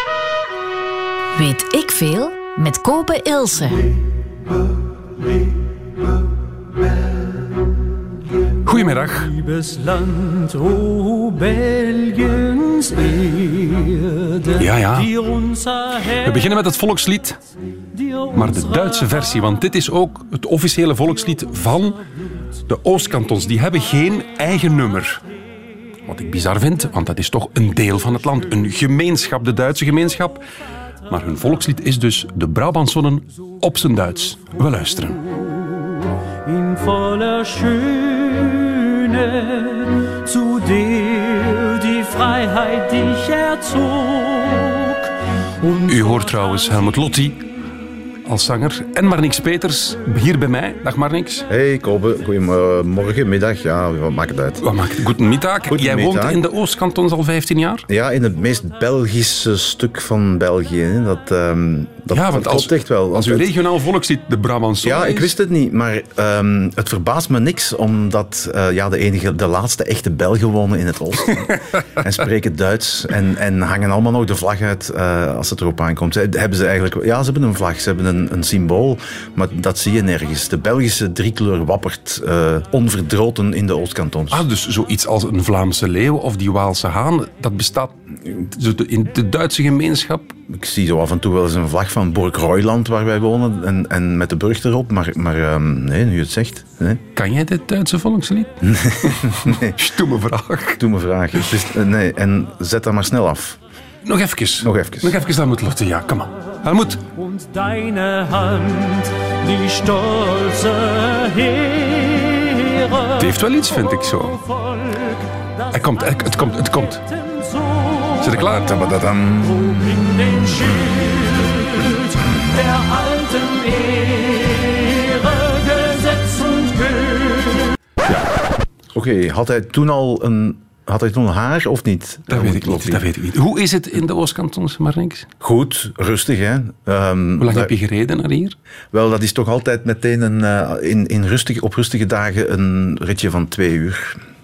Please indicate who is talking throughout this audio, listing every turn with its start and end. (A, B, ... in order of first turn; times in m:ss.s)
0:01.3-0:03.8 A
0:08.6-0:09.3 B
0:14.5-0:15.2 B
0:16.0-0:17.4 B
0:18.3-0:22.0 B
0:22.6-0:25.2 B
0:26.0-0:30.4 B
0:31.1-0:35.3 B
0:36.7-0:38.0 C
0:40.6-0:44.3 C
0:45.8-0:47.4 B
0:48.2-0:51.4 B
0:51.5-0:54.6 D
0:54.6-0:57.8 B
0:55.7-0:56.4 D
0:57.9-1:03.5 D
1:02.1-1:05.3 B
1:04.8-1:24.4 D
1:24.3-1:30.4 B
1:30.5-1:37.0 D
1:37.1-1:40.8 B
1:38.6-1:39.8 D
1:40.8-1:43.6 D
1:44.0-1:47.1 B
1:44.6-1:45.1 D
1:47.5-1:49.1 C
1:49.6-1:51.7 C
1:53.1-1:54.4 B
1:55.7-1:57.0 B
1:58.2-1:58.9 B
1:58.3-2:01.4 D
2:03.2-2:04.5 C
2:05.7-2:07.1 C
2:08.9-2:13.0 D
2:12.3-2:15.3 B
2:15.4-2:17.7 D
2:17.4-2:18.6 B
2:18.9-2:24.2 D